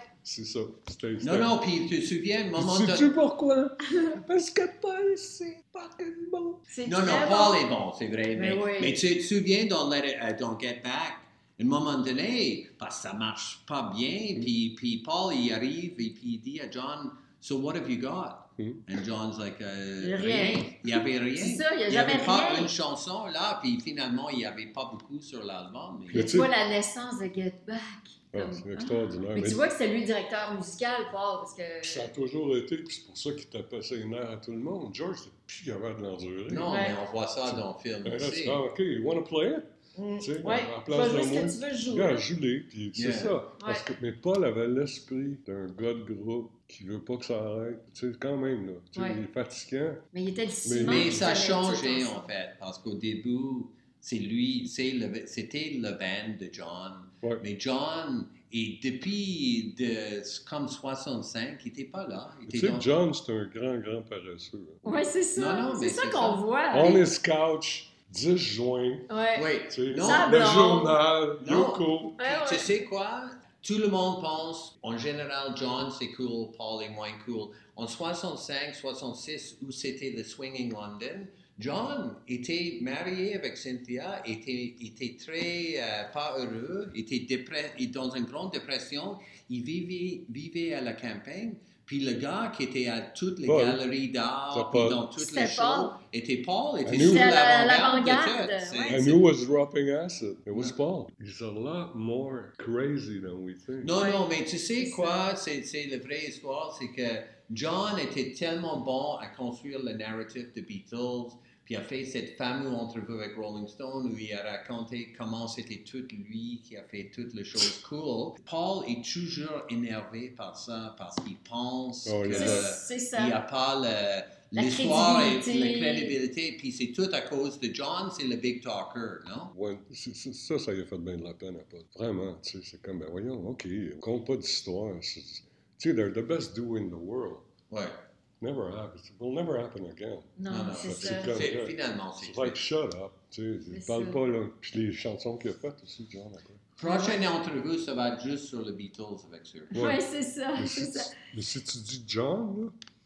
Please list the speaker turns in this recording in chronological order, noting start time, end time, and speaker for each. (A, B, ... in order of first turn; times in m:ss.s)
0:00.2-0:01.6 A
0:01.2-0:03.1 B
0:02.6-0:06.7 A
0:06.7-0:07.7 C
0:06.8-0:26.3 B
0:08.4-0:09.0 C
0:18.6-0:18.8 A
0:20.0-0:22.7 C
0:26.1-0:26.5 A
0:26.1-0:32.1 C
0:28.3-0:29.6 A
0:31.8-0:36.9 A
0:36.5-0:38.6 B
0:36.7-0:37.0 C
0:37.5-0:50.1 A
0:40.0-0:42.2 C
0:43.0-0:43.4 B
0:43.6-0:43.8 C
0:50.1-0:52.2 C
0:50.6-0:51.3 A
0:50.8-1:02.9 B
1:02.5-1:05.0 A
1:04.8-1:07.0 C
1:05.4-1:07.0 B
1:06.7-1:09.1 A
1:09.1-1:09.5 C
1:09.4-1:10.7 B
1:09.7-1:12.2 A
1:10.0-1:11.0 C
1:11.4-1:39.2 B
1:12.2-1:12.7 C
1:33.4-1:33.8 A
1:34.5-1:35.0 A
1:35.2-1:36.0 C
1:36.8-1:37.4 A
1:37.0-1:39.1 C
1:38.9-1:43.9 A
1:43.8-2:09.5 B
1:44.0-1:44.2 C
1:44.8-1:45.2 C
2:02.1-2:02.7 A
2:02.3-2:03.4 C
2:04.5-2:06.2 C
2:09.5-2:17.5 A
2:17.7-2:18.0 B
2:18.4-2:26.6 A
2:20.4-2:21.4 C
2:20.5-2:22.6 B
2:23.7-2:24.2 C
2:26.8-2:29.8 B
2:26.8-2:27.2 C
2:29.7-2:30.0 A
2:29.7-2:31.2 C
2:30.6-2:32.8 A